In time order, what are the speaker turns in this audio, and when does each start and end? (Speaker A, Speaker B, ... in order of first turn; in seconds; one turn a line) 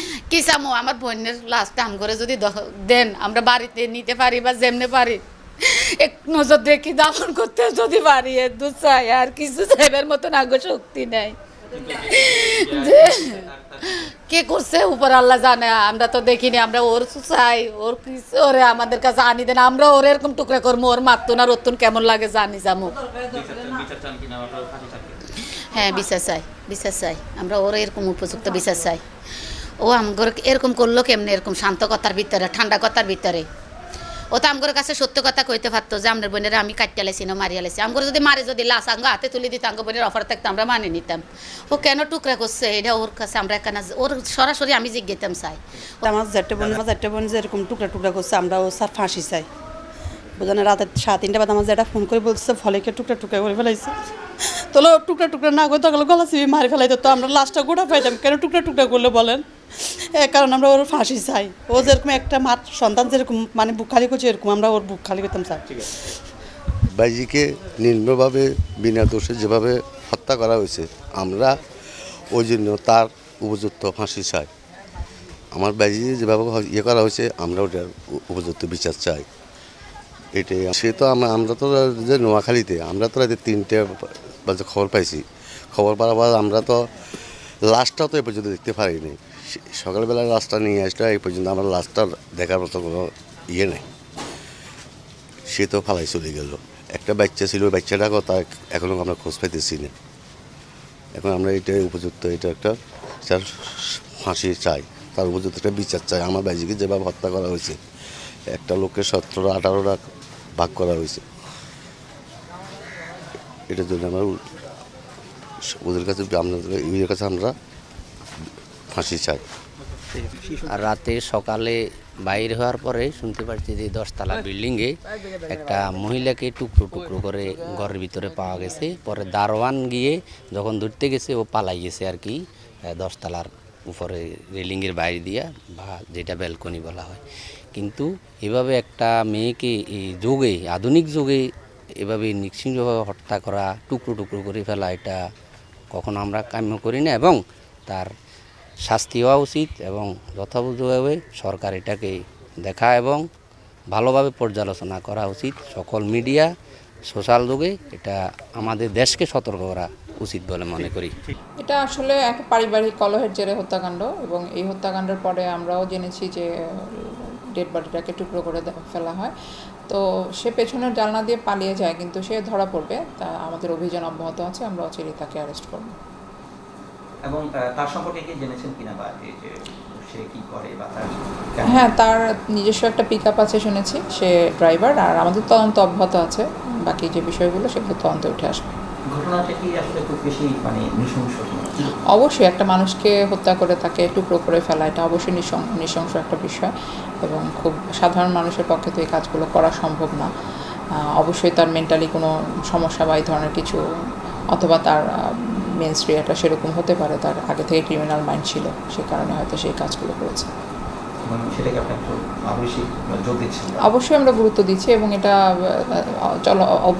Speaker A: 0.3-11.3
Speaker B: 11.7-14.0
Speaker A: 12.1-13.4
Speaker A: 14.3-22.9
Speaker B: 23.3-25.2
Speaker A: 25.7-29.0
Speaker A: 29.8-33.5
Speaker A: 34.3-45.6
Speaker C: 46.0-49.5
Speaker C: 50.4-65.6
Speaker D: 67.0-71.5
Speaker D: 72.3-74.5
Speaker D: 75.5-79.3
Speaker D: 80.3-86.8
Speaker D: 87.7-93.8
Speaker D: 95.5-99.9
Speaker D: 101.2-107.8
Speaker D: 108.5-110.0
Speaker D: 110.6-111.2
Speaker D: 113.7-114.4
Speaker D: 115.7-117.5
Speaker D: 118.9-119.4
Speaker B: 120.2-120.7
Speaker E: 120.7-125.0
Speaker E: 125.5-132.4
Speaker E: 132.9-137.2
Speaker E: 137.7-141.4
Speaker E: 142.0-145.2
Speaker E: 145.9-148.1
Speaker E: 148.8-153.2
Speaker E: 153.9-156.5
Speaker E: 157.1-161.1
Speaker F: 161.6-166.5
Speaker F: 167.6-169.3
Speaker F: 169.9-175.9
Speaker B: 177.2-181.9
Speaker F: 181.6-188.7
Speaker B: 189.1-191.8
Speaker F: 192.1-196.7
Speaker F: 197.2-200.3
Speaker F: 201.2-203.8
Speaker F: 204.5-205.0
Speaker F: 205.8-210.5
Speaker B: 211.2-213.8
Speaker F: 213.8-215.3